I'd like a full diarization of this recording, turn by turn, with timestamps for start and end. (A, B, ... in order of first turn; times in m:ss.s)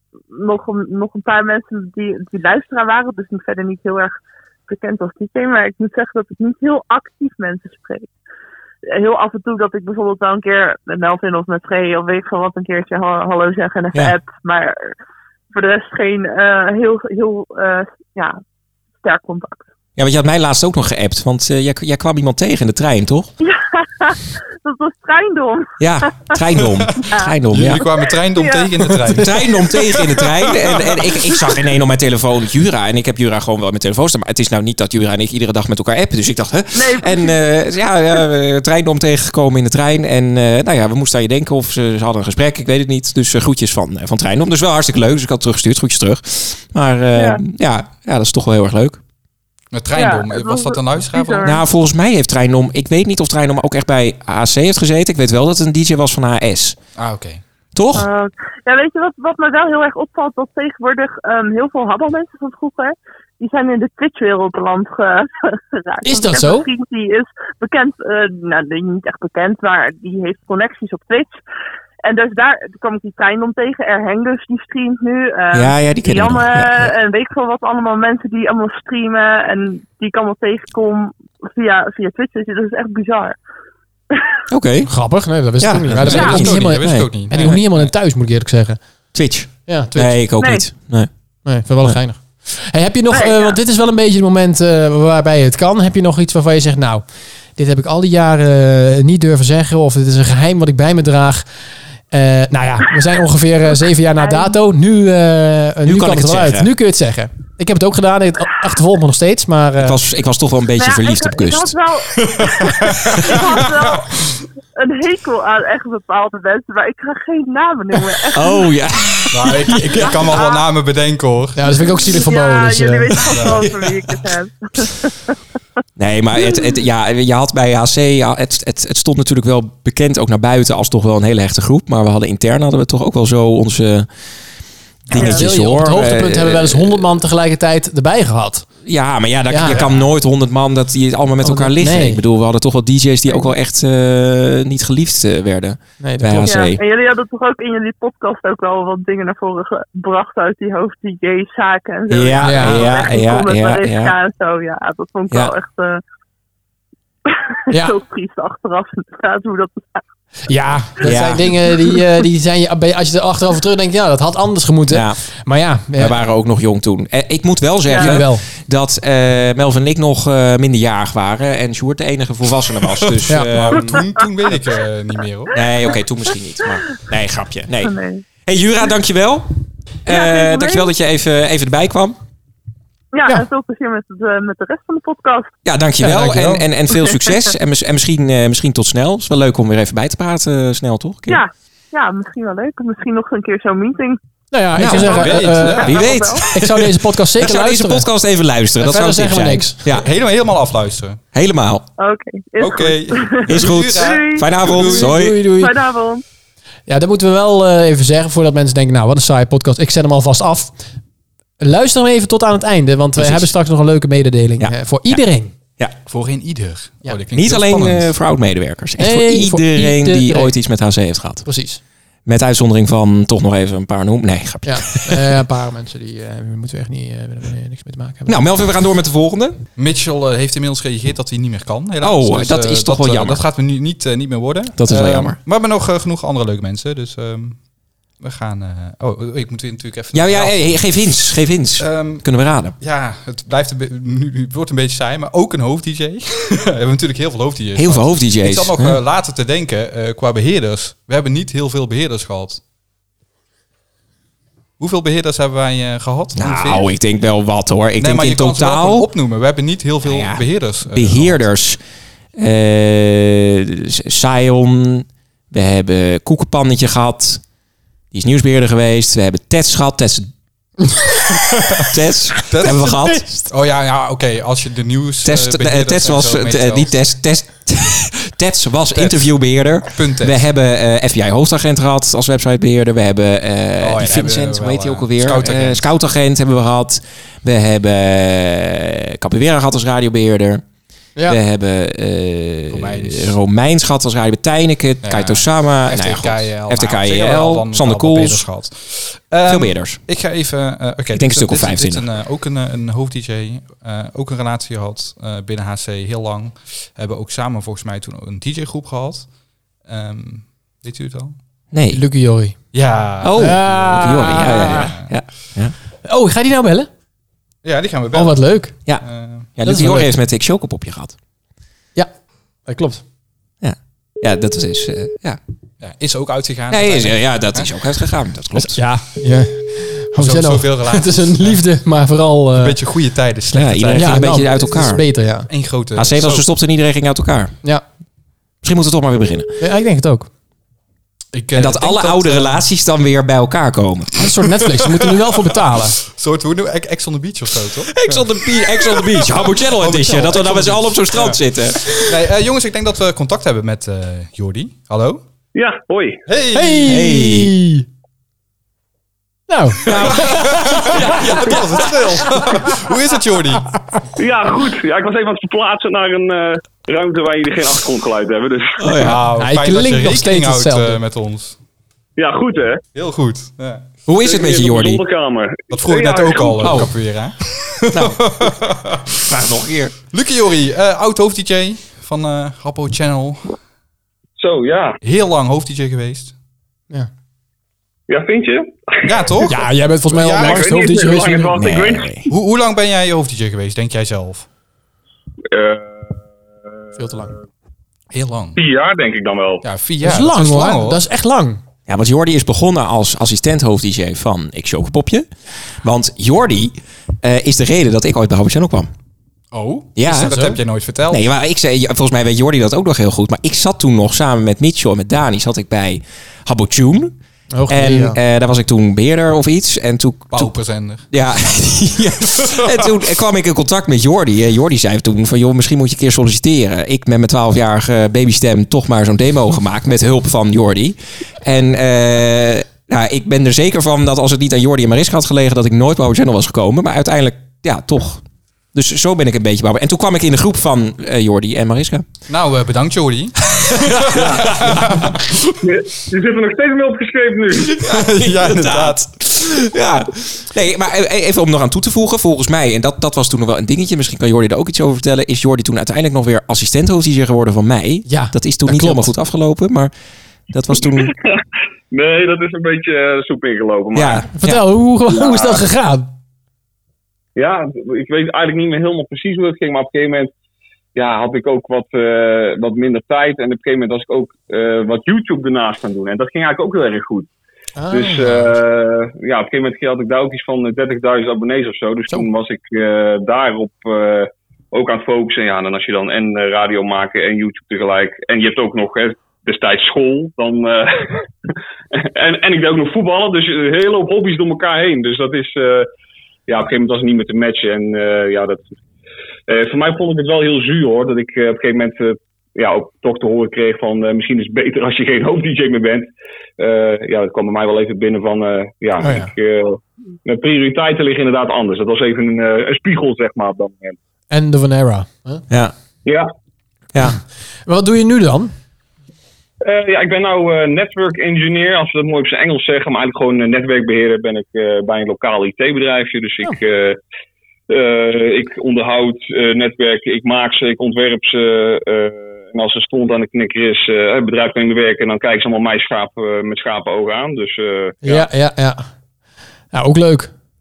0:00.3-0:04.2 A
0:04.7-0:08.1 A
0:08.9-0:14.9 A
0:15.5-0:18.4 A
0:19.0-0:19.7 A
0:20.0-0:23.3 B
0:23.4-0:26.3 A
0:25.8-0:27.9 B
0:27.0-0:27.3 A
0:27.5-0:31.1 C
0:28.4-0:28.8 A
0:29.1-0:49.0 B
0:36.7-0:37.4 A
0:47.2-0:47.4 A
0:49.7-0:51.5 C
0:49.9-0:51.6 A
0:51.4-0:56.8 B
0:57.0-0:57.4 C
0:57.8-0:58.1 B
0:58.0-1:11.4 A
1:06.0-1:06.7 D
1:12.0-1:23.4 A
1:15.5-1:16.9 B
1:24.5-1:24.9 B
1:24.9-1:28.8 D
1:25.6-1:27.6 B
1:26.0-1:27.9 C
1:26.2-1:26.4 A
1:29.1-1:31.1 B
1:29.7-1:30.3 D
1:30.4-1:30.7 A
1:31.5-1:37.0 D
1:33.1-1:33.6 A
1:37.6-1:41.5 D
1:42.1-1:50.0 D
1:44.2-1:44.6 A
1:45.8-1:46.7 B
1:49.8-1:51.8 B
1:50.8-1:54.1 A
1:52.2-1:53.4 C
1:54.8-1:58.7 A
1:58.3-2:00.4 B
1:59.3-2:01.6 C
2:00.0-2:00.6 A
2:01.6-2:03.4 D
2:02.1-2:05.3 A
2:03.3-2:03.6 C
2:06.0-2:14.1 B
2:15.1-2:17.2 B
2:15.1-2:18.7 D
2:18.8-2:26.8 B
2:19.5-2:19.8 D
2:19.7-2:20.1 C
2:21.4-2:22.2 D
2:26.0-2:26.6 D
2:26.5-2:36.0 A
2:32.1-2:34.1 B
2:32.4-2:32.9 D
2:37.3-2:40.0 A
2:40.5-2:46.2 D
2:41.0-2:41.6 B
2:41.6-2:42.0 A
2:44.9-2:45.2 B
2:46.0-2:54.1 B
2:47.9-2:48.2 A
2:48.0-2:48.4 D
2:52.9-2:55.5 C
2:53.3-2:53.8 D
2:55.5-2:57.9 B
2:57.8-2:58.2 A
2:58.5-2:59.5 B
3:00.0-3:02.2 B
3:00.1-3:00.9 A
3:03.1-3:05.5 A
3:05.6-3:11.4 B
3:06.0-3:06.6 D
3:06.9-3:07.5 A
3:11.3-3:14.2 A
3:14.5-3:18.0 D
3:14.8-3:20.1 B
3:14.8-3:16.2 C
3:14.9-3:16.5 A
3:18.8-3:19.8 D
3:19.9-3:21.2 C
3:21.3-3:21.9 B
3:22.0-3:24.6 A
3:22.6-3:25.1 C
3:23.5-3:25.5 B
3:24.7-3:25.8 D
3:25.6-3:26.2 A
3:26.9-3:30.7 D
3:31.6-3:35.5 D
3:33.2-3:33.5 B
3:34.6-3:35.2 B
3:36.1-3:38.1 C
3:37.3-3:41.4 B
3:39.0-3:40.5 D
3:41.4-3:41.8 D
3:42.3-3:45.3 B
3:44.6-3:48.4 D
3:48.3-3:49.6 B
3:49.8-3:57.6 C
3:52.0-3:53.4 B
3:54.8-3:55.4 B
3:58.2-4:01.1 C
4:00.1-4:02.8 B
4:01.8-4:02.3 C
4:02.8-4:12.6 C
4:07.8-4:09.0 B
4:14.8-4:16.9 C
4:16.4-4:19.1 B
4:18.0-4:21.4 C
4:20.0-4:21.8 B
4:22.4-4:27.4 B
4:28.1-4:30.3 B
4:31.9-4:33.3 B
4:32.5-4:32.9 C
4:32.7-4:33.4 D
4:33.5-4:37.0 C
4:35.2-4:50.6 B
4:38.9-4:39.4 C
4:39.9-4:40.4 C
4:43.8-4:45.8 C
4:51.3-4:58.4 B
4:52.7-4:53.4 C
4:55.0-5:09.3 C
4:59.5-5:00.0 B
5:01.1-5:02.1 B
5:09.8-5:11.4 C
5:11.7-5:12.0 B
5:11.9-5:12.6 D
5:12.7-5:15.1 C
5:13.2-5:15.8 B
5:13.4-5:14.9 D
5:16.0-5:16.9 D
5:17.6-5:18.5 C
5:18.1-5:18.7 D
5:18.9-5:21.2 B
5:19.0-5:19.5 C
5:19.6-5:20.1 D
5:22.7-5:23.0 D
5:23.6-5:25.4 B
5:25.8-5:27.7 C
5:26.7-5:28.8 B
5:28.6-5:32.8 D
5:30.2-5:31.6 C
5:32.6-5:34.9 C
5:33.5-5:35.0 B
5:34.0-5:35.5 D
5:35.5-5:36.5 C
5:36.0-5:37.6 B
5:38.6-5:39.6 B
5:39.6-5:40.3 D
5:41.3-5:42.6 C
5:41.6-5:44.2 B
5:44.2-5:46.0 D
5:46.0-5:55.2 C
5:47.9-5:52.1 B
5:55.5-5:56.2 E
5:56.3-5:57.0 C
5:56.5-5:57.9 D
5:56.8-5:57.5 B
5:59.5-6:01.9 D
5:59.9-6:01.5 B
5:59.9-6:03.8 C
6:04.2-6:08.9 E
6:08.8-6:09.2 B
6:09.0-6:11.6 C
6:09.4-6:11.0 D
6:12.2-6:12.8 E
6:13.0-6:13.8 C
6:14.1-6:15.0 B
6:14.2-6:16.8 E
6:15.7-6:19.2 C
6:16.6-6:17.0 B
6:17.9-6:18.4 B
6:19.3-6:19.9 B
6:20.1-6:23.6 C
6:24.4-6:25.0 E
6:25.0-6:26.3 C
6:28.1-6:29.2 E
6:29.0-6:30.7 C
6:29.5-6:31.7 D
6:30.4-6:32.2 E
6:31.6-6:32.3 B
6:32.3-6:34.5 C
6:35.5-6:36.3 E
6:36.9-6:37.4 E
6:37.0-6:37.3 D
6:38.1-6:38.6 C
6:38.6-6:39.6 E
6:39.6-6:41.0 C
6:40.0-6:41.6 D
6:41.9-6:45.3 B
6:45.8-6:48.9 B
6:49.5-6:51.2 C
6:49.6-6:49.8 D
6:50.0-6:57.2 B
6:57.5-6:58.2 D
6:57.7-7:00.5 B
7:00.3-7:01.1 C
7:01.1-7:18.2 B
7:18.7-7:22.1 B
7:22.3-7:25.4 C
7:23.8-7:25.1 B
7:25.6-7:27.7 E
7:27.7-7:29.1 C
7:27.8-7:39.9 B
7:38.1-7:39.1 D
7:40.5-7:41.1 B
7:41.0-7:44.3 E
7:43.9-7:44.6 B
7:44.4-7:46.1 D
7:45.1-7:45.6 E
7:47.4-7:50.3 E
7:51.0-7:57.3 E
7:57.8-7:58.5 D
7:57.9-8:11.3 E
8:12.0-8:15.9 E
8:16.5-8:18.8 E
8:19.5-8:34.0 E
8:29.0-8:29.3 D
8:34.3-8:35.4 D
8:37.0-8:38.5 D
8:39.6-8:47.0 E
8:47.7-8:58.3 E
8:58.0-8:58.8 D
8:59.7-9:00.3 D